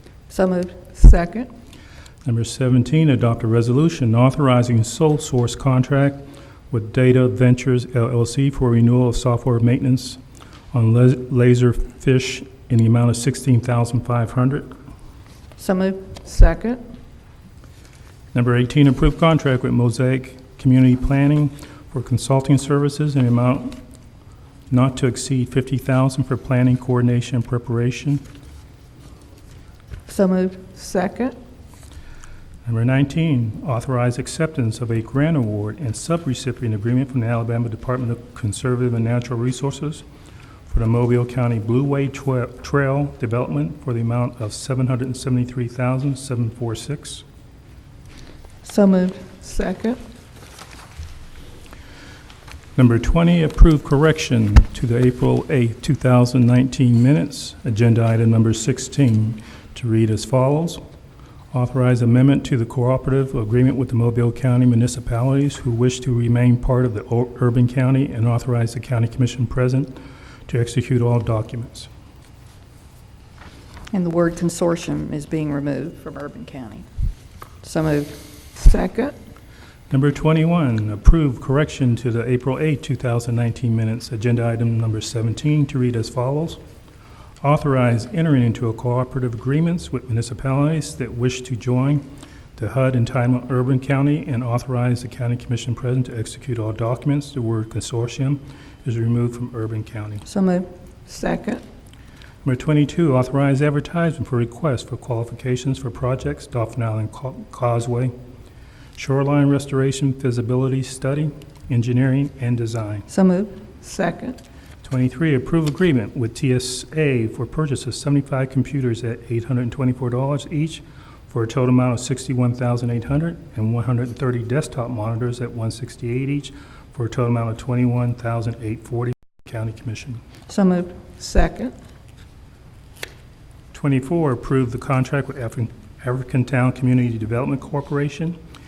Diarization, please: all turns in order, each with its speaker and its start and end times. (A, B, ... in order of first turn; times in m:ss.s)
0:00.3-0:00.8 A
0:00.9-0:01.5 B
0:02.2-0:10.2 C
0:10.7-0:14.7 C
0:15.6-0:16.2 A
0:16.2-0:16.8 B
0:18.3-0:23.8 C
0:24.7-0:28.2 C
0:30.1-0:30.7 A
0:30.7-0:31.4 B
0:32.6-0:40.0 C
0:40.7-0:47.2 C
0:48.6-0:49.3 A
0:49.4-0:50.0 B
0:52.8-1:00.8 C
1:01.5-1:11.9 C
1:13.9-1:16.9 A
1:17.6-1:18.2 A
1:18.6-1:19.2 B
1:19.9-1:26.6 C
1:27.4-1:32.0 C
1:32.6-1:40.2 C
1:40.2-1:40.7 A
1:41.1-1:41.6 B
1:42.4-1:48.1 C
1:49.0-1:53.1 C
1:53.1-1:53.6 A
1:53.8-1:54.4 B
1:54.8-2:10.2 C
2:10.5-2:11.0 A
2:11.2-2:11.7 B
2:13.7-2:18.4 C